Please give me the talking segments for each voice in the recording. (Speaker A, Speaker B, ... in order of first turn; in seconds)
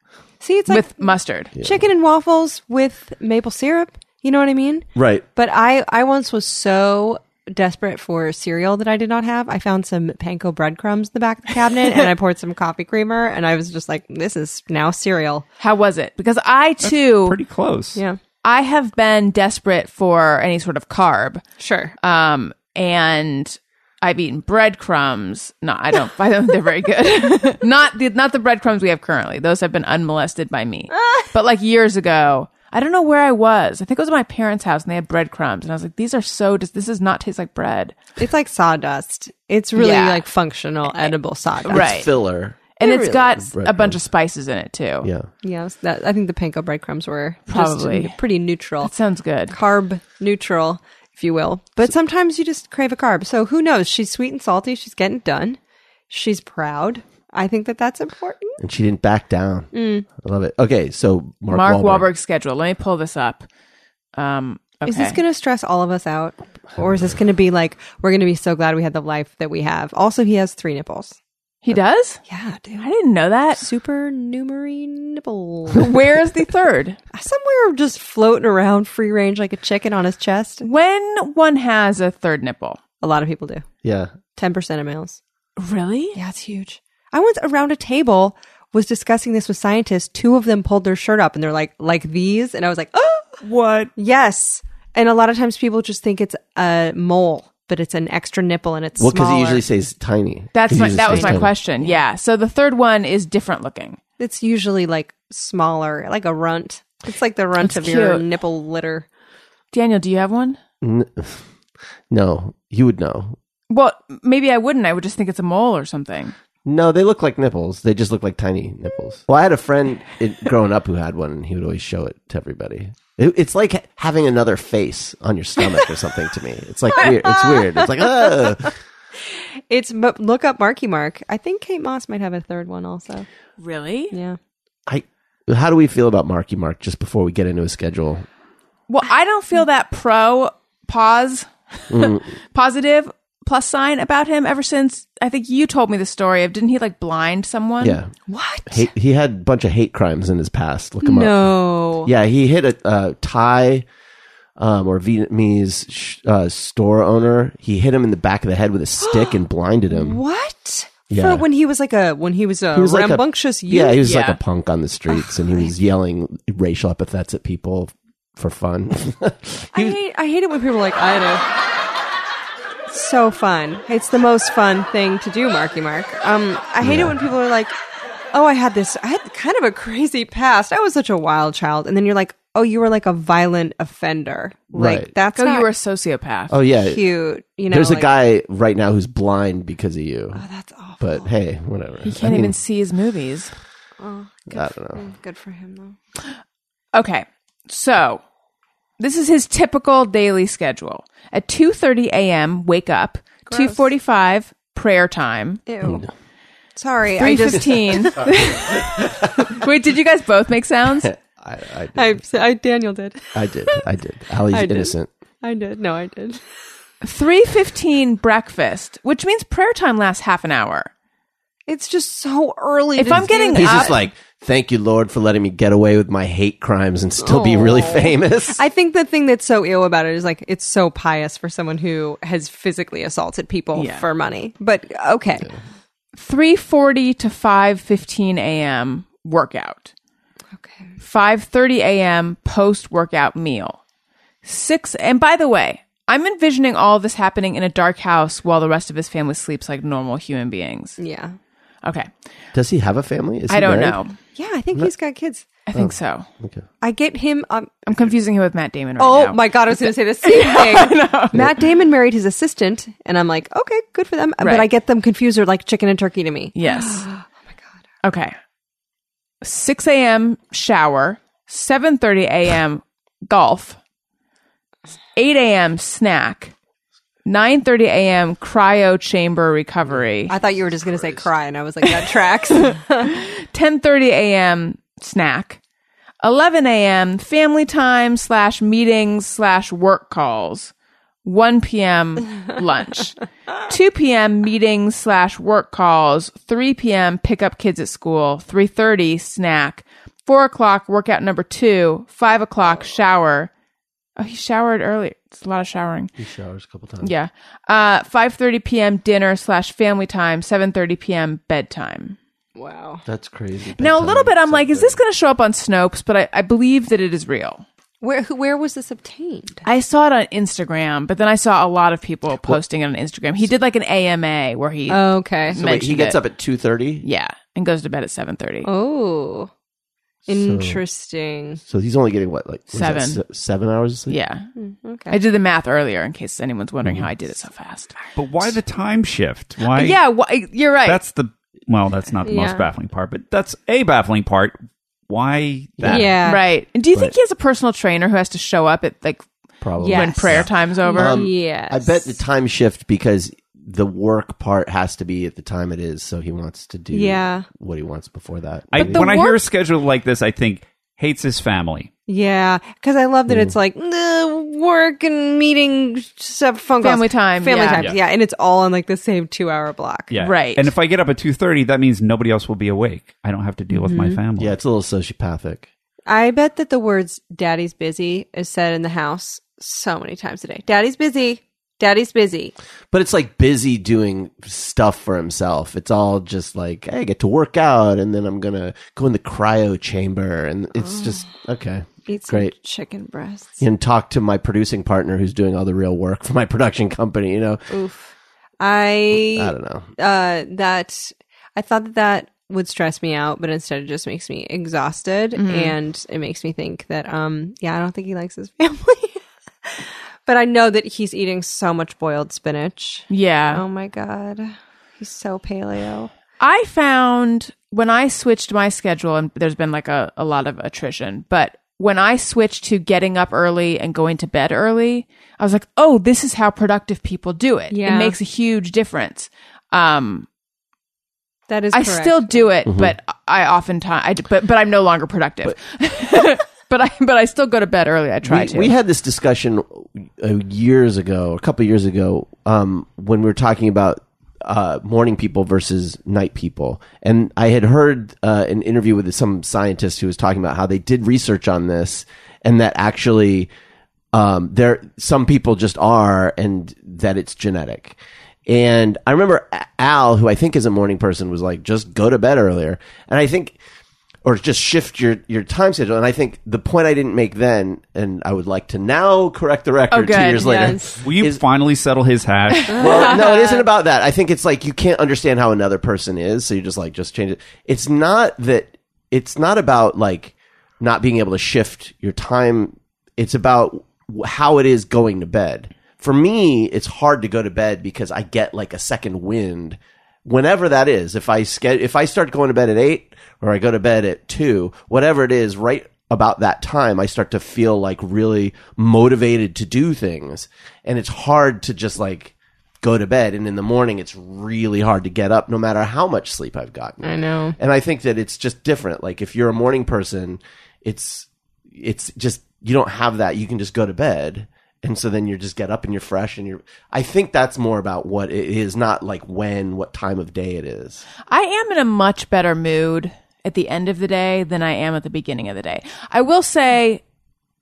Speaker A: 0.4-15.4, 21.6-21.9, 38.2-42.0, 42.8-43.2, 45.4-48.9, 49.5-55.6, 56.1-58.6, 59.7-60.0, 64.8-71.2, 72.3-72.9, 73.5-75.9, 77.1-80.7, 83.0-83.7, 84.3-85.2, 86.1-93.4, 94.0-99.6, 101.1-101.9, 104.2-109.1, 127.0-127.3, 129.7-133.2, 134.1-134.4, 148.3-148.8, 151.0-152.1, 159.0-164.0, 169.7-171.5, 172.9-177.7, 178.3-185.7, 186.7-188.1, 190.3-191.2, 194.0-195.9, 203.5-203.8, 205.7-206.1, 206.8-208.2, 211.9-213.8, 214.5-216.4, 221.7-223.9, 227.2-235.5, 240.5-240.9, 251.0-251.3, 254.3-255.4, 256.8-257.9, 259.0-267.4, 280.3-283.2, 312.6-313.0, 318.0-319.6, 324.9-325.6, 328.6-329.5, 330.3-331.6, 334.6-335.2, 342.2-342.7, 345.9-346.4, 349.8-352.1, 356.9-357.5, 362.1-370.1, 373.7-374.2, 376.1-382.5, 390.8-391.2, 392.1-393.6, 397.7-416.1, 427.7-428.2, 431.5-432.4, 470.4-471.0, 472.7-473.1, 507.0-507.6
Speaker B: 0.7-1.5, 15.6-17.4, 18.4-21.4, 22.0-38.0, 39.8-40.2, 41.6-42.1, 42.8-45.1, 47.5-48.1, 48.8-49.5, 61.5-63.5, 64.2-65.2, 71.6-72.2, 72.8-73.6, 75.8-77.0, 80.6-82.8, 85.6-86.2, 100.5-104.0, 107.6-108.2, 109.7-110.6, 113.7-116.3, 133.6-134.1, 138.9-148.0, 164.0-164.4, 185.3-186.5, 192.0-193.5, 196.9-198.2, 199.0-205.6, 207.2-211.1, 217.0-220.9, 223.0-224.0, 233.7-234.1, 236.1-239.9, 241.0-243.8, 244.4-251.0, 251.8-252.1, 253.5-254.1, 255.7-256.3, 257.9-259.6, 260.2-261.4, 264.4-264.7, 266.5-267.0, 268.0-268.3, 269.4-273.8, 275.1-276.5, 277.2-280.3, 282.6-285.6, 286.2-290.7, 291.2-303.5, 304.2-306.1, 307.0-312.2, 313.8-317.6, 319.6-326.2, 327.0-328.7, 332.7-333.2, 334.1-334.5, 335.1-338.0, 339.7-341.0, 346.2-349.2, 349.9-351.2, 358.8-359.4, 366.8-367.9, 370.2-370.7, 405.4-405.8, 413.1-413.6, 416.4-430.3, 431.7-438.7, 469.9-470.4, 472.5-473.6, 521.3-527.0
Speaker C: 1.6-1.8, 4.9-5.2, 41.7-42.8, 43.5-44.0, 45.0-45.3, 58.6-62.1, 83.8-84.1, 99.0-101.5, 110.8-111.4, 112.1-113.4, 116.6-128.7, 134.9-138.2, 141.9-142.3, 147.8-148.1, 148.7-153.8, 154.6-160.2, 161.1-161.4, 162.7-170.0, 176.8-177.1, 184.7-185.1, 186.5-187.0, 187.7-190.4, 191.0-192.5, 194.5-195.0, 205.8-206.1, 208.2-209.4, 211.0-212.2, 213.3-215.1, 223.6-228.6, 252.5-254.0, 255.7-256.6, 306.2-307.1, 313.1-315.0, 325.5-327.1, 330.3-330.8, 331.6-334.1, 336.8-337.1, 345.8-346.1, 349.6-359.1, 363.3-363.5, 374.4-375.7, 382.9-392.5, 393.6-397.6, 399.1-399.9, 432.6-432.9, 438.2-453.5, 454.1-463.6, 464.2-471.4, 472.8-521.0
Speaker D: 16.8-18.0, 93.4-93.9, 338.1-340.0, 340.9-344.6, 345.1-346.1, 358.7-361.9, 370.1-374.5, 471.0-472.8